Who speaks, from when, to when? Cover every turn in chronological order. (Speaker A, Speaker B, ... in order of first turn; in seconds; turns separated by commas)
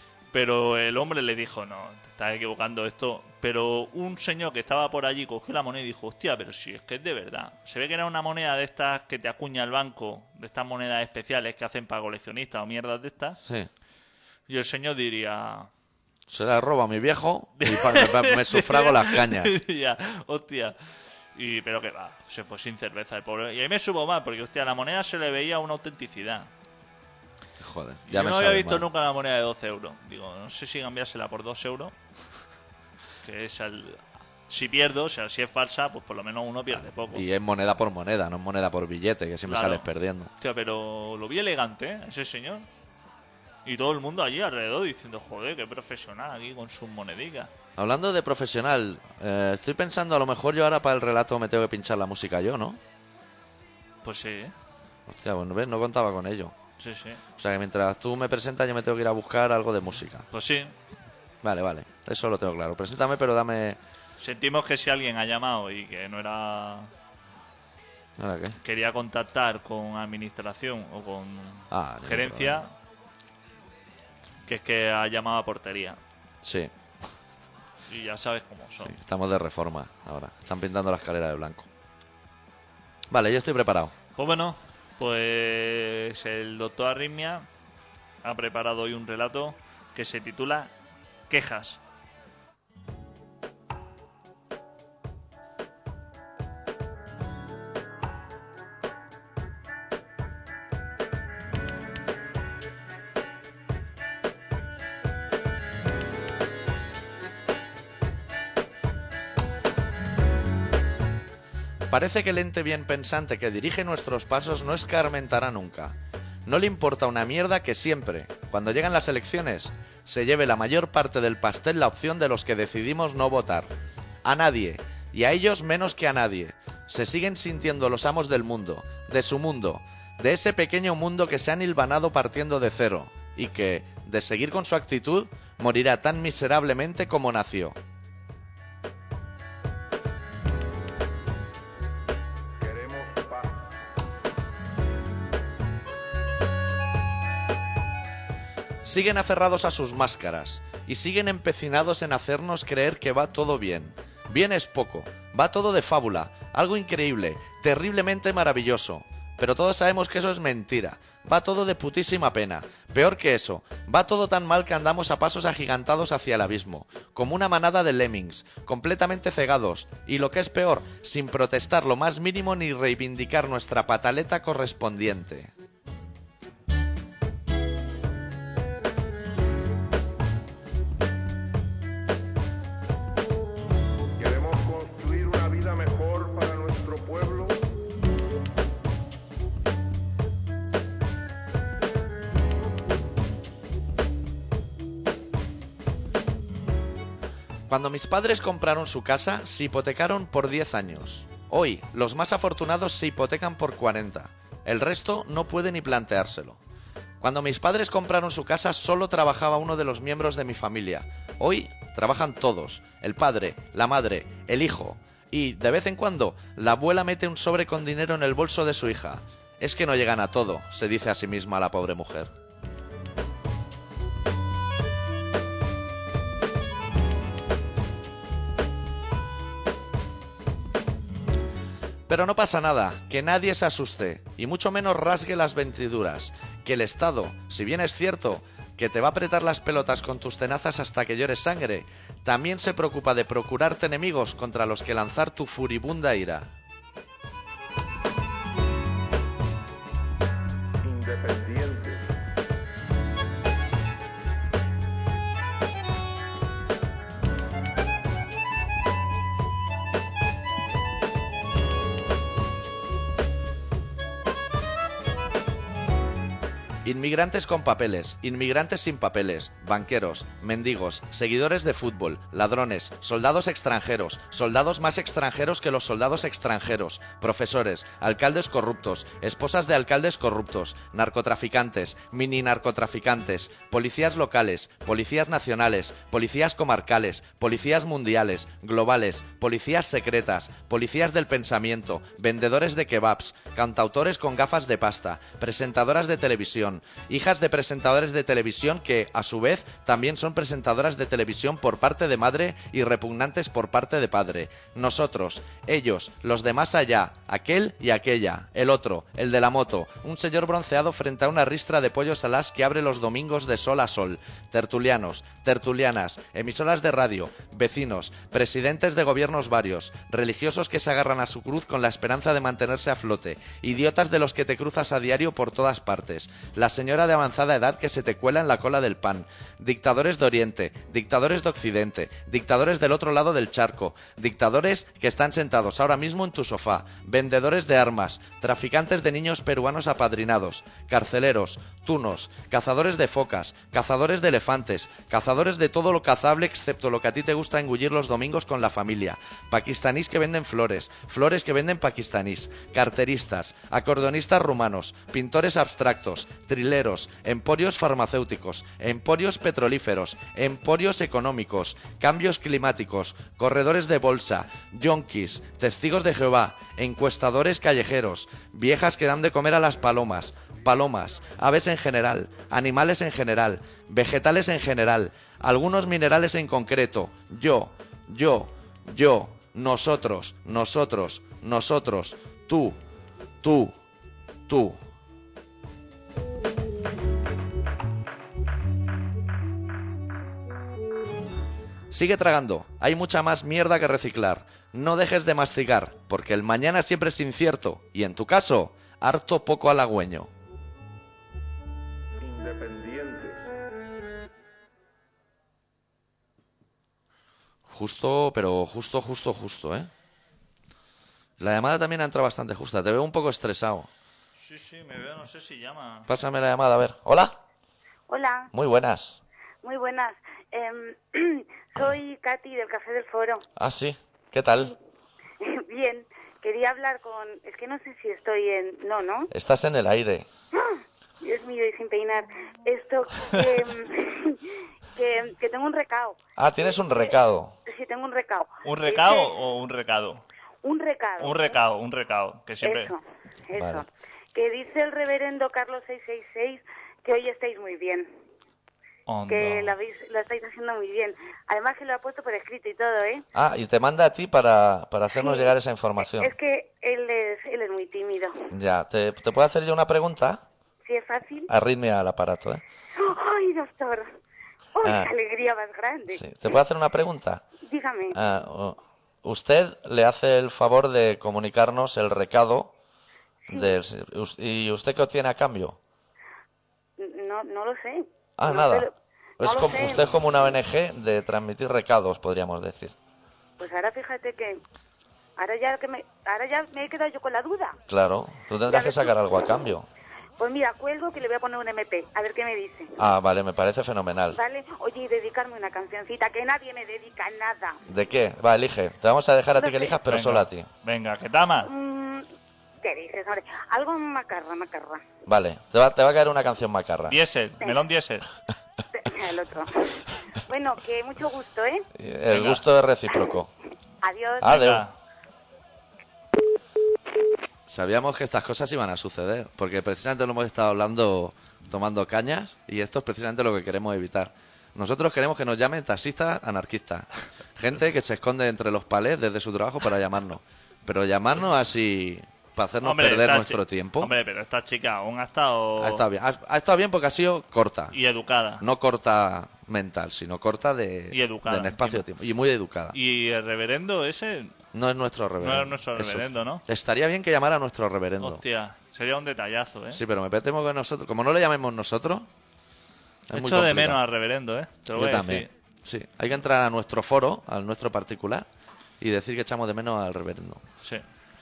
Speaker A: 0.3-13.4, Speaker B: 13.4-13.7, Speaker A: 14.5-15.7, Speaker B: 16.3-19.6, Speaker A: 17.6-20.8, Speaker A: 21.3-26.5, Speaker B: 27.6-28.9, Speaker A: 28.1-31.9, Speaker A: 33.2-37.2, Speaker B: 36.7-40.3, Speaker A: 39.5-39.9, Speaker A: 40.4-42.7, Speaker A: 43.6-47.5, Speaker B: 47.8-52.8, Speaker A: 54.0-54.5, Speaker B: 55.1-56.5, Speaker A: 56.8-57.2, Speaker B: 57.4-60.3, Speaker A: 60.3-60.7, Speaker B: 61.4-63.8, Speaker A: 64.2-66.9, Speaker B: 68.2-68.6, Speaker A: 68.6-72.7, Speaker B: 71.7-72.7, Speaker A: 74.5-76.0, Speaker B: 76.4-76.7, Speaker A: 77.9-79.0, Speaker B: 78.8-81.7, Speaker B: 83.1-83.9, Speaker A: 84.2-87.5, Speaker A: 88.2-90.7, Speaker A: 91.3-91.8, Speaker B: 111.9-123.7, Speaker B: 124.2-137.8, Speaker C: 142.6-143.7, Speaker B: 148.8-175.5, Speaker C: 184.2-187.7, Speaker B: 197.7-206.6, Speaker B: 207.2-222.3, Speaker B: 232.1-246.5, Speaker C: 250.8-252.1, Speaker B: 266.8-382.8, Speaker B: 383.4-383.8, Speaker B: 384.5-384.8, Speaker B: 391.9-400.3, Speaker C: 402.2-403.5, Speaker B: 407.7-409.9, Speaker B: 411.4-413.9, Speaker A: 414.4-416.1, Speaker B: 416.1-417.4, Speaker D: 418.1-418.5, Speaker B: 418.5-419.2, Speaker D: 419.6-423.4, Speaker B: 423.6-424.7, Speaker D: 425.4-429.3, Speaker B: 429.3-430.3, Speaker D: 430.5-434.4, Speaker D: 434.9-436.2, Speaker B: 436.4-437.5, Speaker D: 436.7-437.1, Speaker D: 437.7-439.3, Speaker A: 438.6-440.2, Speaker D: 440.6-441.5, Speaker A: 441.2-442.9, Speaker D: 442.6-448.1, Speaker B: 443.5-443.8, Speaker A: 449.1-449.8, Speaker D: 449.3-453.2, Speaker B: 453.3-456.3, Speaker D: 455.1-458.5, Speaker B: 458.5-460.4, Speaker D: 460.8-461.5, Speaker B: 461.5-462.6, Speaker D: 462.9-464.1, Speaker D: 464.8-466.2, Speaker B: 464.8-465.1, Speaker B: 466.1-467.5, Speaker D: 467.6-468.2, Speaker B: 468.1-472.7, Speaker D: 473.5-473.8, Speaker B: 473.5-475.8, Speaker D: 477.0-480.1, Speaker B: 478.4-478.9, Speaker B: 479.4-482.9, Speaker D: 483.6-484.6, Speaker D: 485.4-487.8, Speaker B: 487.9-489.9, Speaker D: 488.7-489.2, Speaker D: 490.4-493.0, Speaker B: 493.0-494.4, Speaker D: 494.3-497.8, Speaker B: 497.9-500.7, Speaker D: 499.5-500.0, Speaker A: 500.1-501.7, Speaker D: 501.6-502.3, Speaker D: 502.8-505.0, Speaker B: 505.2-507.1, Speaker A: 507.1-508.3, Speaker D: 508.9-511.9, Speaker B: 511.9-513.5, Speaker A: 512.3-512.6, Speaker D: 514.0-514.6, Speaker B: 514.4-514.8, Speaker A: 514.4-514.9, Speaker B: 517.7-534.1, Speaker A: 532.8-536.0, Speaker B: 535.8-538.0, Speaker A: 537.9-538.6, Speaker B: 538.6-543.0, Speaker A: 541.1-542.0, Speaker A: 542.9-544.5, Speaker B: 544.7-548.4, Speaker A: 545.4-546.6, Speaker A: 548.2-550.0, Speaker B: 549.9-552.3, Speaker B: 553.3-554.0, Speaker A: 553.3-555.5, Speaker B: 554.9-558.5, Speaker B: 559.0-560.6